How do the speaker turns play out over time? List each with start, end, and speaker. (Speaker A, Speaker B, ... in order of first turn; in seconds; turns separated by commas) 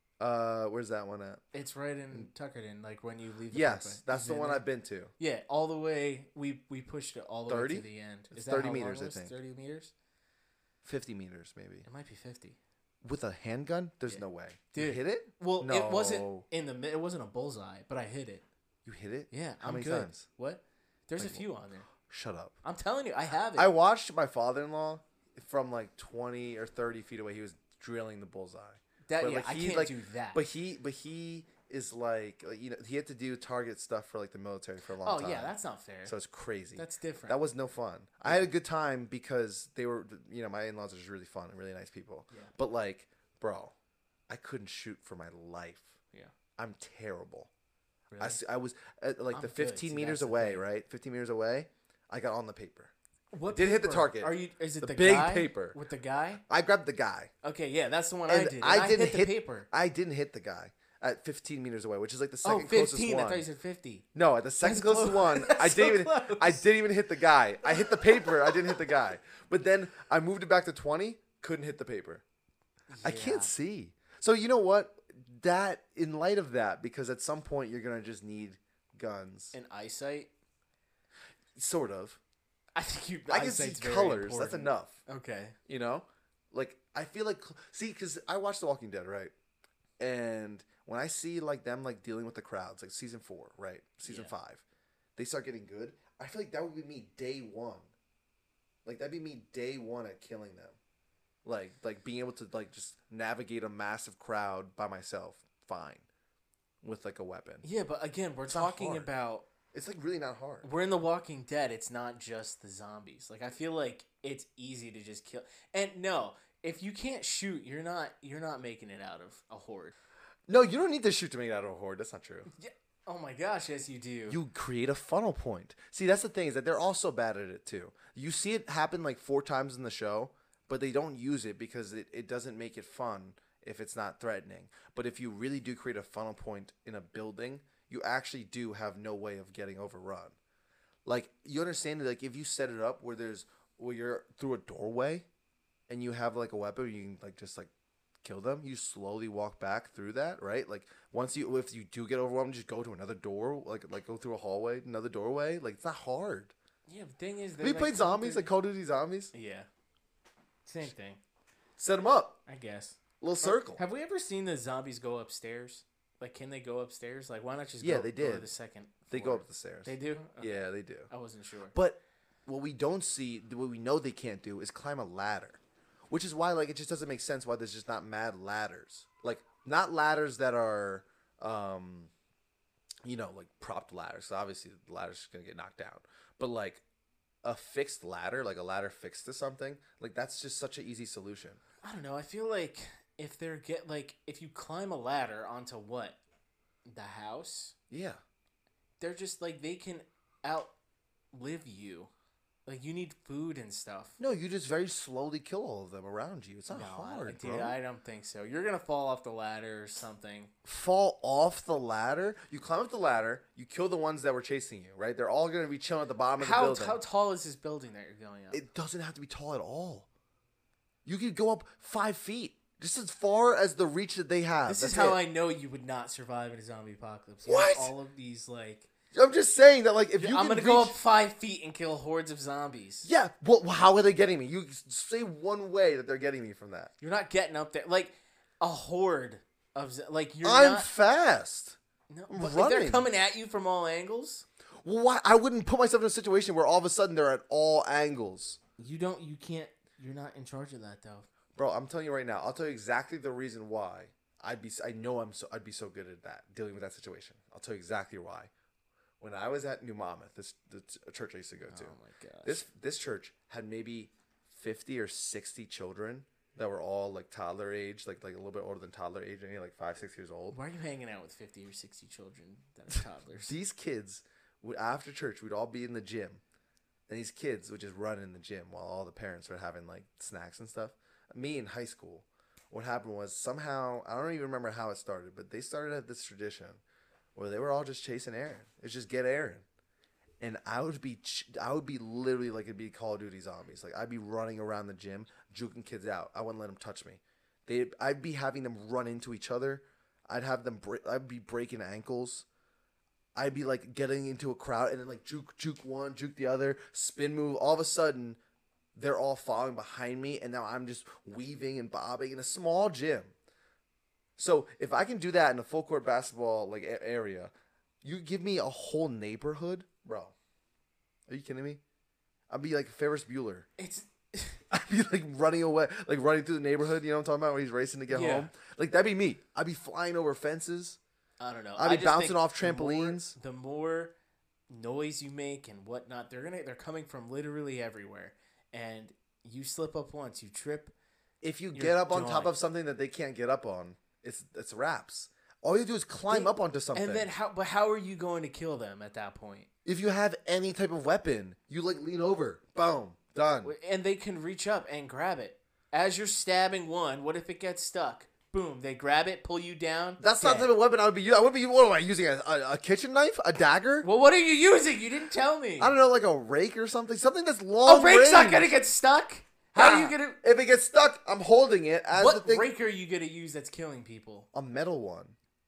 Speaker A: 0.2-1.4, Speaker B: 1.5-4.6, Speaker A: 3.5-5.1, Speaker B: 5.2-9.9, Speaker A: 7.5-9.3, Speaker A: 10.8-11.9, Speaker B: 11.8-12.6, Speaker A: 13.0-16.4, Speaker B: 14.1-18.4, Speaker A: 18.8-20.3, Speaker B: 19.3-21.9, Speaker A: 21.2-21.4, Speaker A: 22.0-22.6, Speaker B: 22.6-23.7, Speaker A: 23.6-35.5, Speaker B: 29.1-30.4, Speaker B: 35.0-36.1, Speaker A: 36.0-43.7, Speaker B: 36.7-37.4, Speaker A: 44.3-46.0, Speaker A: 46.6-47.5, Speaker B: 48.1-48.4, Speaker A: 48.2-52.9, Speaker B: 49.3-50.6, Speaker B: 53.3-56.4, Speaker A: 53.5-55.8, Speaker A: 56.5-57.3, Speaker B: 57.4-59.7, Speaker A: 58.3-63.5, Speaker B: 62.4-64.0, Speaker A: 64.1-72.2, Speaker B: 64.6-66.7, Speaker B: 67.6-68.7, Speaker B: 72.9-73.5, Speaker A: 73.0-79.5, Speaker B: 79.5-80.3, Speaker A: 81.5-82.2, Speaker B: 82.7-85.5, Speaker A: 83.3-85.0, Speaker A: 85.7-89.3, Speaker A: 90.0-94.6, Speaker B: 94.0-94.3, Speaker A: 95.2-97.9, Speaker A: 98.8-100.8, Speaker A: 101.4-106.0, Speaker A: 106.8-107.6, Speaker B: 107.6-109.4, Speaker A: 108.5-109.1, Speaker A: 109.7-110.7, Speaker B: 110.6-119.9, Speaker A: 120.5-122.5, Speaker B: 122.5-124.4, Speaker A: 124.3-140.3, Speaker A: 141.0-145.3, Speaker A: 145.9-147.7, Speaker A: 148.2-156.5, Speaker B: 156.9-158.5, Speaker A: 157.6-159.3, Speaker B: 159.3-159.7, Speaker B: 160.7-161.2, Speaker A: 161.8-162.4, Speaker B: 162.4-171.7, Speaker A: 163.2-163.8, Speaker A: 167.8-168.5, Speaker A: 169.1-171.1, Speaker A: 171.7-182.1, Speaker A: 183.0-186.8, Speaker A: 187.4-191.6, Speaker B: 191.8-196.2, Speaker B: 196.8-197.7, Speaker A: 197.9-198.2, Speaker B: 199.0-200.7, Speaker B: 201.3-202.1, Speaker B: 202.7-204.2, Speaker A: 204.2-207.8, Speaker B: 206.7-210.5, Speaker A: 210.6-217.0, Speaker B: 216.4-218.6, Speaker A: 218.5-220.1, Speaker A: 221.0-225.2, Speaker B: 224.7-228.9, Speaker A: 227.4-227.9, Speaker A: 229.1-230.9, Speaker B: 230.2-233.1, Speaker A: 233.0-236.9, Speaker B: 237.0-240.9, Speaker A: 240.4-241.8, Speaker B: 242.1-244.4, Speaker A: 242.3-243.1, Speaker A: 244.8-248.6, Speaker B: 248.8-251.3, Speaker A: 251.5-258.5, Speaker A: 259.2-261.9, Speaker B: 261.7-262.6, Speaker A: 262.4-270.6, Speaker B: 270.5-273.6, Speaker A: 273.4-276.4, Speaker A: 277.1-286.8, Speaker A: 287.3-289.6, Speaker A: 290.4-302.4, Speaker A: 303.3-308.4, Speaker A: 308.9-313.3, Speaker A: 314.4-320.3, Speaker A: 321.3-321.8, Speaker A: 322.5-323.7, Speaker B: 323.8-324.6, Speaker A: 324.7-331.0, Speaker B: 328.1-328.5, Speaker B: 331.4-334.1, Speaker A: 331.8-333.4, Speaker B: 334.7-340.9, Speaker A: 341.4-347.3, Speaker B: 341.7-342.5, Speaker B: 346.3-349.7, Speaker A: 349.8-353.7, Speaker B: 353.6-360.7, Speaker A: 360.2-364.1, Speaker B: 364.0-365.9, Speaker A: 365.8-368.7, Speaker B: 367.8-370.4, Speaker A: 369.8-372.7, Speaker B: 372.1-374.5, Speaker A: 374.5-375.4